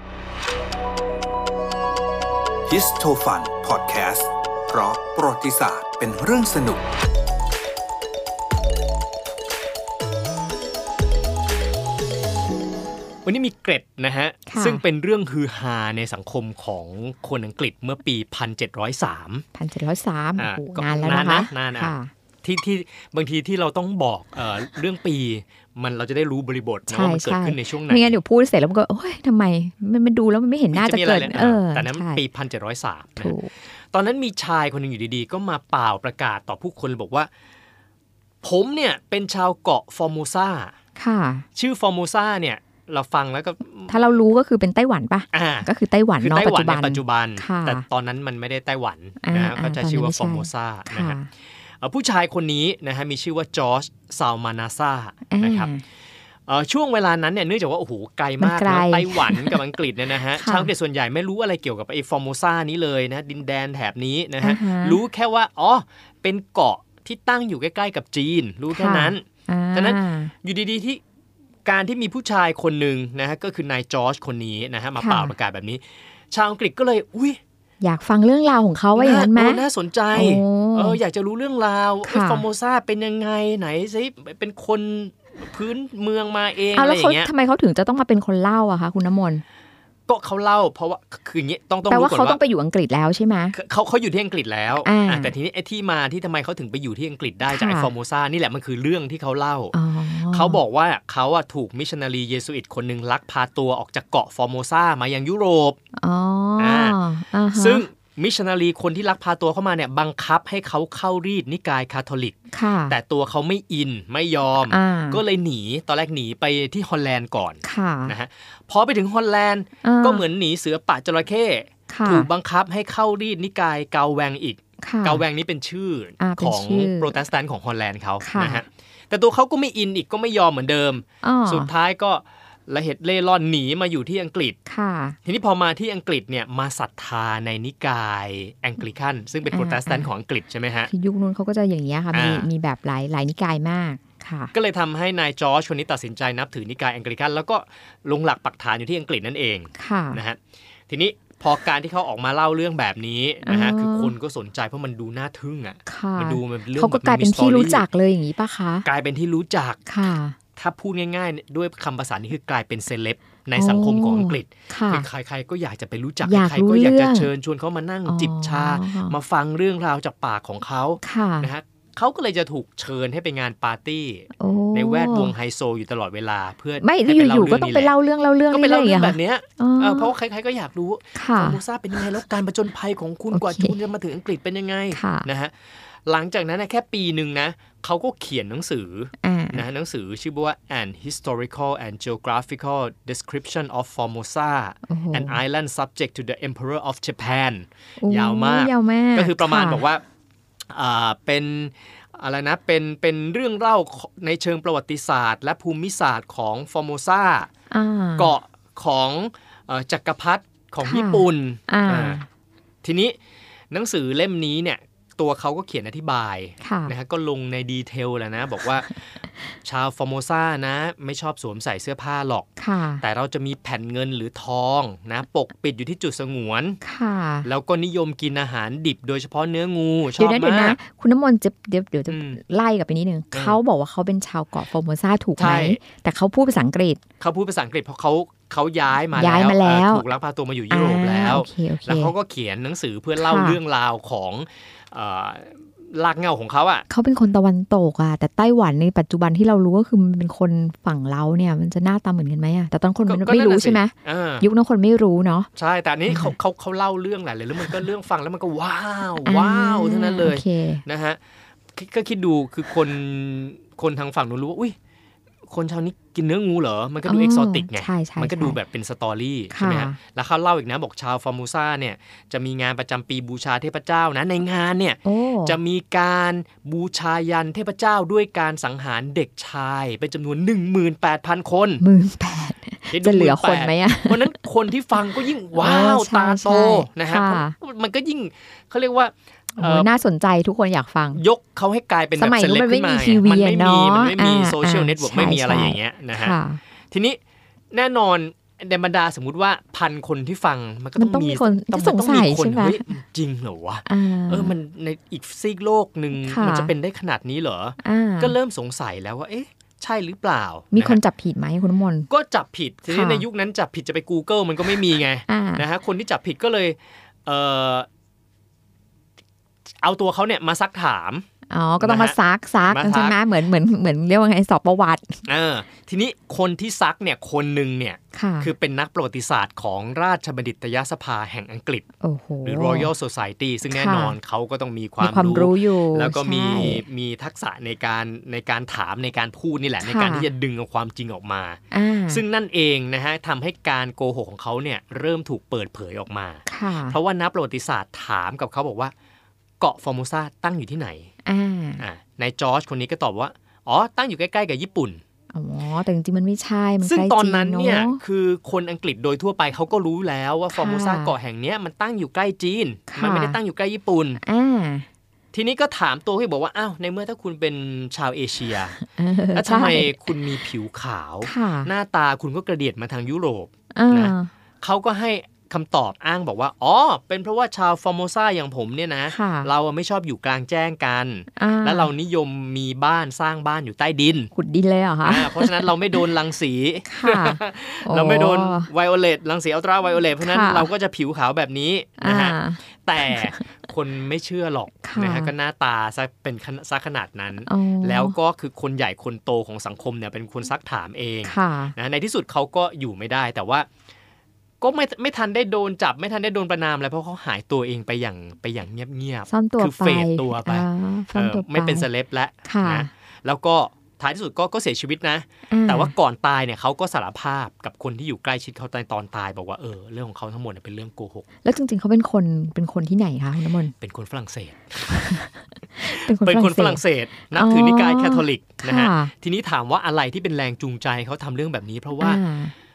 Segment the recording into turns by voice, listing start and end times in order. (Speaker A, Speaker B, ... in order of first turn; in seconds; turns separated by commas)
Speaker A: 2.6-6.8, Speaker B: 13.2-19.4, Speaker C: 14.5-14.8, Speaker C: 19.5-22.1, Speaker B: 20.4-28.1, Speaker C: 26.9-32.2, Speaker B: 30.7-33.4, Speaker C: 33.2-33.5, Speaker B: 33.9-37.3, Speaker B: 38.4-40.7, Speaker C: 41.0-41.5, Speaker B: 41.5-44.0, Speaker C: 43.9-47.8, Speaker B: 45.3-51.2, Speaker C: 49.2-51.3, Speaker B: 51.8-55.7, Speaker C: 55.3-55.8, Speaker B: 56.5-71.0, Speaker C: 58.4-59.6, Speaker C: 60.3-60.7, Speaker C: 64.4-65.0, Speaker C: 68.7-70.3, Speaker B: 71.7-77.4, Speaker C: 75.0-75.3, Speaker C: 77.8-81.0, Speaker B: 78.9-87.3, Speaker C: 82.0-82.4, Speaker C: 86.7-89.4, Speaker B: 90.1-92.4, Speaker C: 91.9-93.5, Speaker B: 93.5-99.8, Speaker C: 94.8-95.3, Speaker C: 97.5-97.9, Speaker C: 99.7-100.6, Speaker B: 100.3-105.8, Speaker C: 106.0-107.8, Speaker B: 106.6-107.0, Speaker B: 107.5-112.3, Speaker C: 112.5-113.0, Speaker B: 112.9-134.6, Speaker C: 114.7-115.2, Speaker C: 117.6-118.1, Speaker C: 119.8-120.2, Speaker C: 121.9-122.3, Speaker C: 124.8-125.2, Speaker C: 126.2-127.1, Speaker C: 128.2-128.6, Speaker C: 131.2-131.7, Speaker C: 134.7-135.2, Speaker B: 135.2-140.9, Speaker C: 139.5-140.1, Speaker C: 140.9-144.5, Speaker B: 142.1-142.5, Speaker B: 144.5-157.8, Speaker C: 149.7-150.2, Speaker C: 153.4-154.1, Speaker C: 155.9-158.9, Speaker B: 158.8-177.9, Speaker C: 159.9-160.3, Speaker C: 163.5-165.1, Speaker C: 166.2-167.3, Speaker C: 168.1-169.2, Speaker C: 171.0-171.5, Speaker C: 174.4-175.3, Speaker C: 176.8-180.1, Speaker B: 178.5-185.5, Speaker C: 181.2-181.6, Speaker C: 183.3-183.8, Speaker C: 184.9-185.3, Speaker B: 186.1-200.0, Speaker C: 189.2-189.7, Speaker C: 194.9-195.4, Speaker C: 198.0-199.8, Speaker B: 200.7-207.5, Speaker C: 207.7-208.3, Speaker B: 208.2-212.2, Speaker C: 210.8-212.2, Speaker B: 212.8-213.2, Speaker B: 213.7-219.0, Speaker C: 216.6-216.9, Speaker B: 219.6-222.5, Speaker C: 222.6-223.0, Speaker B: 223.0-226.8, Speaker C: 226.8-227.5, Speaker B: 227.4-230.8, Speaker C: 230.1-237.0, Speaker B: 232.1-232.4, Speaker B: 233.3-233.6, Speaker B: 235.4-235.8, Speaker B: 237.2-246.8, Speaker C: 239.1-240.0, Speaker C: 240.7-242.1, Speaker C: 243.2-243.6, Speaker C: 246.9-255.5, Speaker B: 253.1-254.5, Speaker B: 255.5-261.2, Speaker C: 256.1-256.3, Speaker C: 259.2-260.8, Speaker B: 261.7-264.7, Speaker B: 265.5-281.8, Speaker C: 267.0-268.6, Speaker C: 269.5-270.0, Speaker C: 275.0-275.6, Speaker C: 281.8-284.4, Speaker B: 282.9-289.9, Speaker C: 285.5-287.6, Speaker C: 289.6-291.2, Speaker B: 291.1-296.4, Speaker C: 292.1-296.6, Speaker B: 296.9-297.2, Speaker B: 297.7-311.0, Speaker C: 300.9-302.9, Speaker C: 303.9-304.5, Speaker C: 306.1-306.7, Speaker C: 307.8-308.4, Speaker C: 310.7-312.1, Speaker B: 312.1-317.9, Speaker C: 312.9-313.2, Speaker C: 315.3-315.6, Speaker B: 319.8-321.2, Speaker C: 321.5-325.2, Speaker B: 321.8-322.2, Speaker B: 322.7-323.2, Speaker B: 325.3-331.8, Speaker C: 328.1-328.5, Speaker C: 332.0-332.9, Speaker B: 332.4-348.9, Speaker C: 333.7-334.1, Speaker C: 335.0-336.8, Speaker C: 339.8-340.3, Speaker C: 341.7-342.2, Speaker C: 346.4-347.0, Speaker B: 349.6-351.1, Speaker C: 351.2-351.8, Speaker B: 351.8-355.0, Speaker C: 355.3-358.0, Speaker B: 356.8-364.2, Speaker C: 360.5-361.1, Speaker C: 362.9-363.4, Speaker C: 364.2-364.9, Speaker B: 365.3-368.8, Speaker C: 368.8-370.0, Speaker B: 369.3-384.3, Speaker C: 371.2-371.7, Speaker C: 373.7-374.3, Speaker C: 379.1-379.5, Speaker C: 381.4-381.9, Speaker C: 384.3-385.7, Speaker B: 385.0-403.7, Speaker C: 386.9-388.7, Speaker C: 390.2-390.7, Speaker C: 392.0-393.4, Speaker C: 394.8-395.3, Speaker C: 397.4-398.1, Speaker C: 401.2-401.7, Speaker B: 404.6-421.2, Speaker C: 409.3-411.9, Speaker C: 412.4-412.9, Speaker C: 415.5-415.9, Speaker C: 421.4-423.7, Speaker B: 423.8-425.2, Speaker C: 424.9-429.1, Speaker B: 425.9-432.2, Speaker C: 432.0-432.5